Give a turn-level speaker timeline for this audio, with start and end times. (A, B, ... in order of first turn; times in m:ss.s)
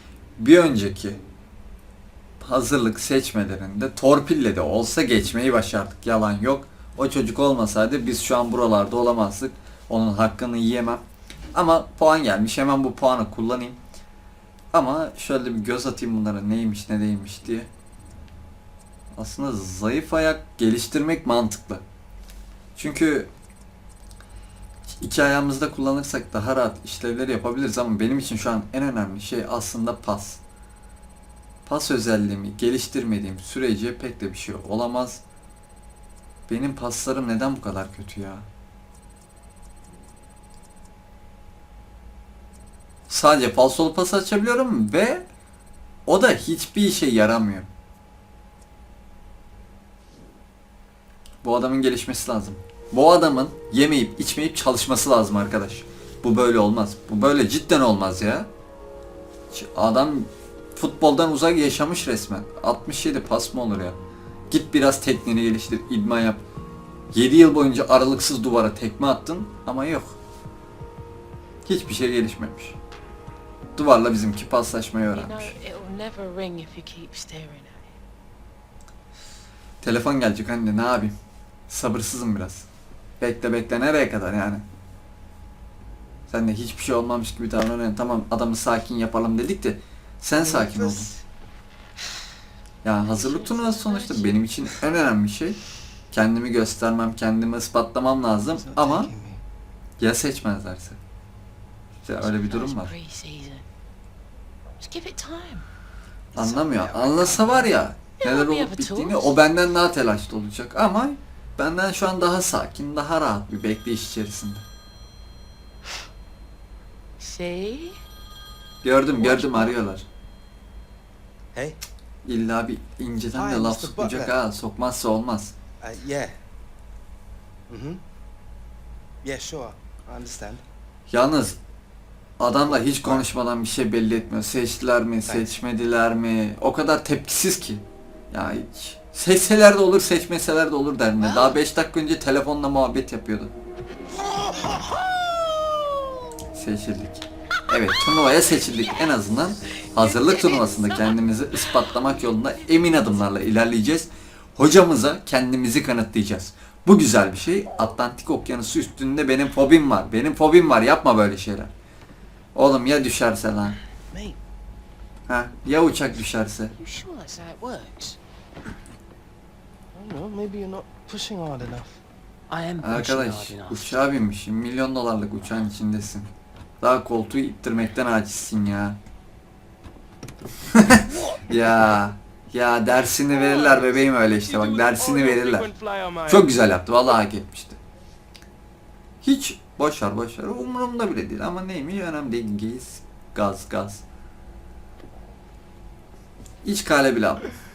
0:00.4-0:01.2 A
0:02.4-0:11.0 A
0:11.5-0:13.8 A
0:14.7-0:17.7 A
0:19.2-0:21.8 A
0:22.8-0:23.3 A
0:24.9-0:30.4 A
0:31.7-0:35.2 A
0:36.5-0:38.5 A
0:43.1-0:45.2 A
0:46.0-0:47.7 A
0:51.4-0:58.5 A
0:59.5-1:06.4 A
1:07.1-1:10.2 A
1:11.6-1:12.8 A
1:13.8-1:15.5 A
1:15.1-1:17.9 B
1:19.8-1:21.2 A
1:21.7-1:22.7 A
1:23.2-1:24.6 A
1:26.3-1:31.1 A
1:30.4-1:31.2 C
1:32.8-1:35.6 A
1:33.0-1:34.8 B
1:36.1-1:39.1 A
1:38.5-1:39.4 C
1:40.0-1:41.0 A
1:42.0-1:42.9 A
1:42.2-1:43.7 B
1:44.8-1:45.7 B
1:46.3-1:54.6 A
1:46.4-1:47.6 B
1:48.2-1:49.4 B
1:57.2-1:58.0 B
1:58.8-2:00.0 A
1:59.2-1:59.7 C
2:01.5-2:01.8 C
2:02.2-2:05.6 A
2:03.3-2:04.4 C
2:05.8-2:06.4 C
2:07.7-2:08.0 C
2:09.2-2:10.6 C
2:11.1-2:11.6 A
2:12.4-2:23.5 A
2:12.6-2:13.3 C
2:15.2-2:15.6 C
2:21.2-2:21.5 B
2:24.3-2:25.1 C
2:26.5-2:41.7 A
2:29.9-2:31.2 B
2:42.5-2:43.8 A
2:45.3-2:46.8 A
2:46.8-2:48.2 B
2:49.9-2:52.0 C
2:52.5-2:54.0 B
2:52.8-2:56.3 A
2:56.8-2:59.0 A
3:00.7-3:05.7 A
3:01.1-3:01.8 B
3:03.3-3:06.5 B
3:06.3-3:07.8 A
3:09.2-3:14.0 A
3:16.6-3:17.4 A